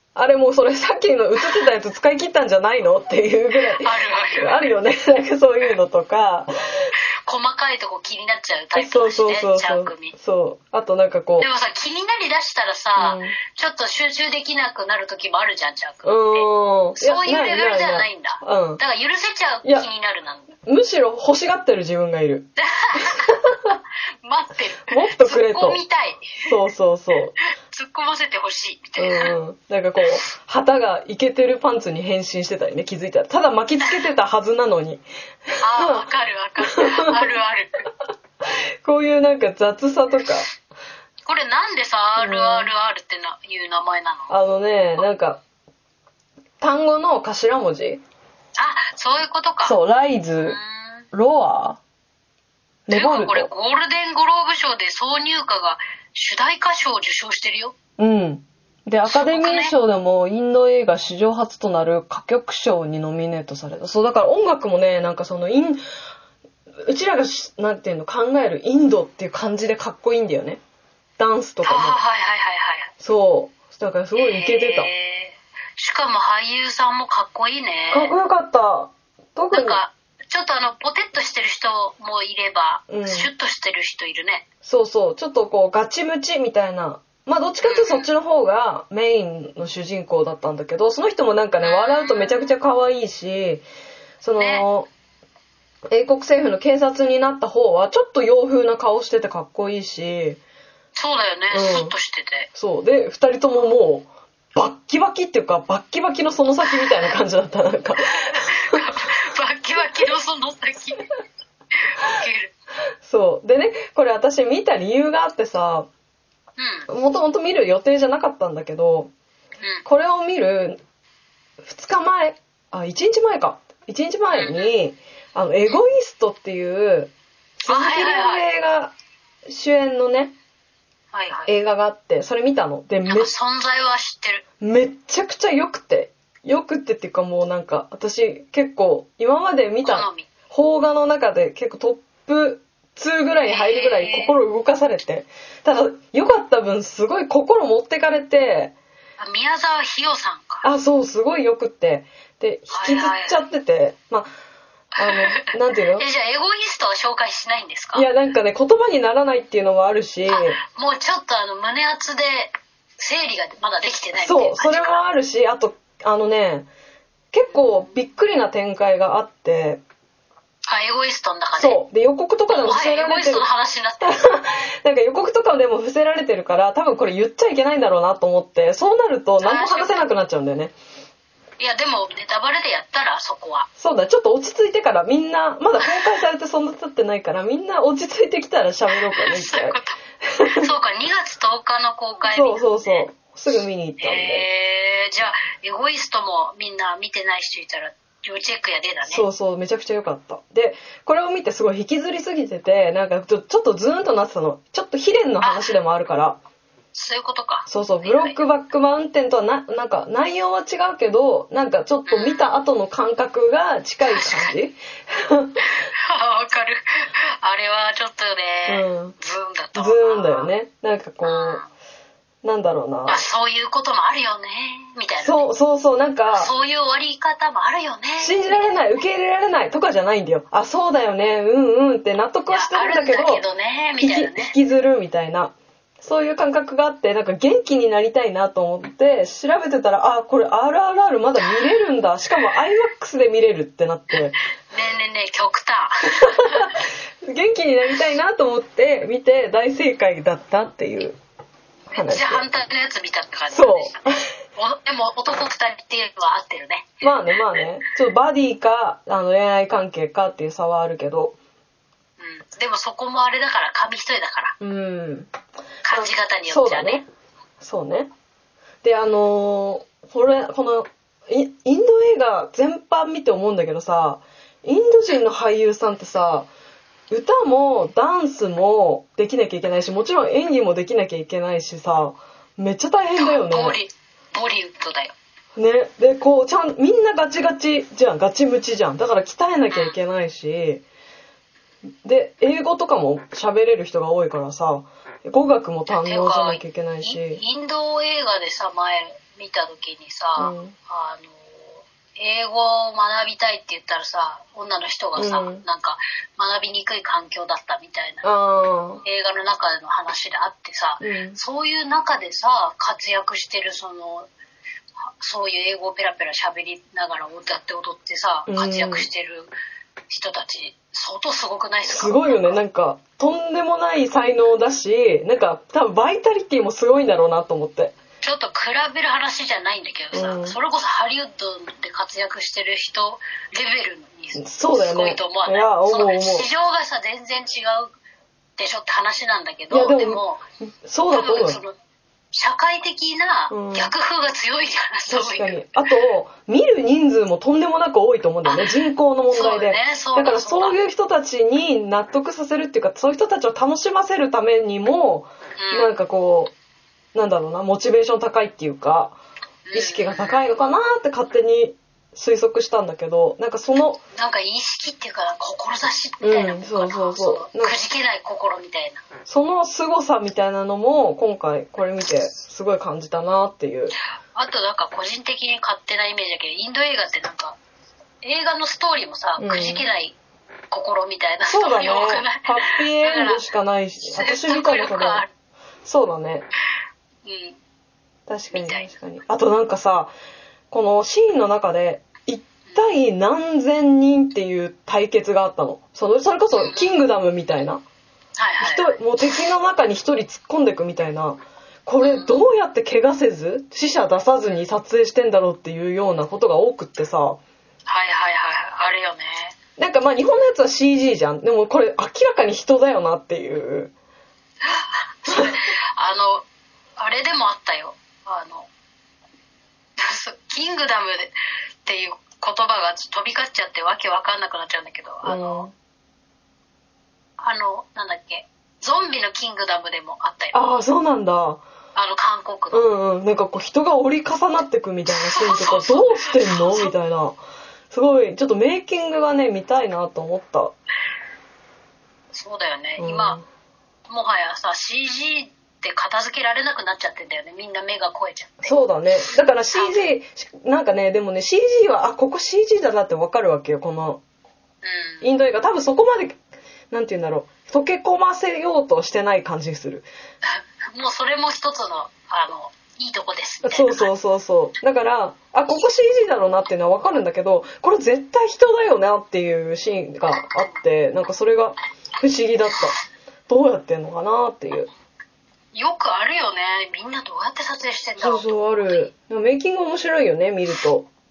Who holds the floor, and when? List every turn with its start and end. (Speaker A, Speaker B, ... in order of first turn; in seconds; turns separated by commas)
Speaker A: 0.1-6.9, Speaker B: 3.7-4.6, Speaker B: 7.2-10.1, Speaker A: 8.7-11.5, Speaker B: 11.4-20.5, Speaker A: 13.0-13.4, Speaker A: 16.0-18.8, Speaker A: 20.6-23.7, Speaker B: 22.6-23.3, Speaker B: 24.2-26.4, Speaker A: 24.9-25.8, Speaker A: 26.4-27.4, Speaker B: 27.6-29.3, Speaker A: 29.0-36.0, Speaker B: 35.6-37.8, Speaker A: 36.6-37.2, Speaker A: 38.8-40.5, Speaker B: 41.2-44.3, Speaker A: 42.2-42.7, Speaker A: 44.3-45.4, Speaker A: 46.6-48.0, Speaker B: 48.6-49.8, Speaker A: 49.6-50.6, Speaker B: 50.4-51.0, Speaker A: 51.1-51.8, Speaker A: 52.9-53.5, Speaker B: 52.9-57.8, Speaker A: 58.0-65.8, Speaker B: 59.0-59.7, Speaker A: 66.8-70.6, Speaker A: 71.2-72.0, Speaker B: 71.6-72.9, Speaker A: 73.0-74.9, Speaker B: 74.2-78.1, Speaker A: 77.9-79.8, Speaker B: 79.5-84.4, Speaker A: 82.9-83.3, Speaker A: 84.6-93.6, Speaker B: 87.6-88.1, Speaker B: 91.6-92.5, Speaker A: 94.2-94.9, Speaker B: 94.4-94.6, Speaker A: 95.9-100.4, Speaker B: 100.9-102.5, Speaker A: 101.5-101.9, Speaker A: 102.5-108.8, Speaker B: 108.3-111.0, Speaker B: 111.7-112.5, Speaker A: 113.0-115.9, Speaker B: 116.6-116.9, Speaker A: 116.9-119.1, Speaker A: 119.8-120.8, Speaker A: 121.6-128.9, Speaker B: 124.3-124.7, Speaker B: 127.7-128.5, Speaker A: 129.4-130.3, Speaker B: 131.1-131.5, Speaker A: 131.5-133.3, Speaker B: 133.1-134.4, Speaker A: 134.6-148.7, Speaker B: 139.8-140.3, Speaker B: 143.4-144.3, Speaker B: 149.2-150.6, Speaker A: 150.6-154.3, Speaker B: 152.7-153.4, Speaker A: 155.0-156.0, Speaker B: 155.1-155.4, Speaker B: 155.9-158.1, Speaker A: 157.9-160.6, Speaker B: 160.3-165.0, Speaker A: 164.2-166.7, Speaker A: 167.3-169.8, Speaker B: 170.7-171.8, Speaker A: 171.6-173.4, Speaker B: 172.5-174.2, Speaker A: 174.0-180.7, Speaker B: 179.4-180.1, Speaker B: 181.6-183.7, Speaker A: 183.8-190.7, Speaker B: 185.8-186.1, Speaker B: 189.0-193.1, Speaker A: 192.3-194.4, Speaker B: 194.0-199.2, Speaker A: 199.1-206.4, Speaker B: 205.4-205.7, Speaker B: 206.9-208.4, Speaker A: 207.7-215.6, Speaker B: 212.1-212.5, Speaker B: 214.0-214.6, Speaker B: 216.0-220.5, Speaker A: 218.7-219.2, Speaker A: 219.7-221.6, Speaker B: 221.2-221.7, Speaker A: 222.4-223.2, Speaker B: 223.1-225.5, Speaker A: 225.2-226.5, Speaker B: 226.3-229.0, Speaker A: 228.2-233.4, Speaker B: 232.5-234.5, Speaker A: 234.0-244.3, Speaker B: 241.5-241.7, Speaker B: 244.1-246.8, Speaker A: 246.3-251.2, Speaker B: 251.9-254.0, Speaker A: 251.9-252.4, Speaker A: 253.5-254.3, Speaker B: 254.6-257.0, Speaker A: 257.0-261.4, Speaker B: 262.2-264.6, Speaker A: 264.6-265.3, Speaker B: 265.8-267.0, Speaker A: 265.9-267.0, Speaker A: 267.6-268.1, Speaker A: 268.8-276.5, Speaker A: 277.1-283.8, Speaker B: 283.1-285.1, Speaker A: 285.6-290.8, Speaker B: 289.7-290.0, Speaker A: 292.0-297.4, Speaker B: 295.9-308.3, Speaker A: 300.4-300.7, Speaker A: 305.1-305.6, Speaker A: 308.2-309.0, Speaker B: 309.0-314.3, Speaker A: 311.0-311.4, Speaker B: 315.2-319.5, Speaker A: 318.5-319.1, Speaker B: 320.1-322.6, Speaker A: 321.9-327.9, Speaker B: 328.2-337.9, Speaker A: 330.1-330.6, Speaker A: 334.4-336.5, Speaker B: 338.6-340.4, Speaker A: 339.7-340.2, Speaker A: 340.8-341.6, Speaker B: 341.1-341.7, Speaker B: 342.3-345.6, Speaker A: 343.5-343.9, Speaker A: 345.1-356.5, Speaker B: 348.4-348.8, Speaker B: 349.3-350.8, Speaker B: 355.6-356.0, Speaker A: 357.1-359.2, Speaker B: 359.7-360.5, Speaker A: 359.7-364.0, Speaker B: 364.1-369.0, Speaker A: 366.2-367.7, Speaker A: 369.3-374.0, Speaker B: 374.3-377.6, Speaker B: 378.2-380.1, Speaker A: 379.4-379.8, Speaker B: 380.7-383.4, Speaker A: 381.5-385.2, Speaker B: 384.0-385.3, Speaker A: 385.8-386.5, Speaker B: 387.2-387.6, Speaker A: 388.3-390.1, Speaker B: 388.5-388.9, Speaker A: 390.7-397.8, Speaker B: 396.5-397.0, Speaker B: 398.4-398.9, Speaker A: 398.6-407.4, Speaker B: 402.0-402.4, Speaker B: 407.9-409.5, Speaker A: 409.8-413.9, Speaker B: 414.6-416.4, Speaker A: 415.3-415.6, Speaker B: 417.0-418.7, Speaker B: 420.0-425.7, Speaker A: 425.2-425.7, Speaker B: 427.4-430.7, Speaker A: 430.5-431.6, Speaker B: 431.9-432.9, Speaker A: 432.7-437.4, Speaker B: 435.1-436.9, Speaker A: 437.9-440.7, Speaker B: 442.3-443.4, Speaker A: 443.0-443.4, Speaker B: 444.1-448.7, Speaker A: 448.6-454.2, Speaker B: 449.7-450.1, Speaker B: 454.8-455.3, Speaker A: 455.2-456.4, Speaker A: 456.9-460.1, Speaker B: 460.4-464.1, Speaker A: 463.6-474.9, Speaker B: 475.7-479.1, Speaker A: 478.2-481.1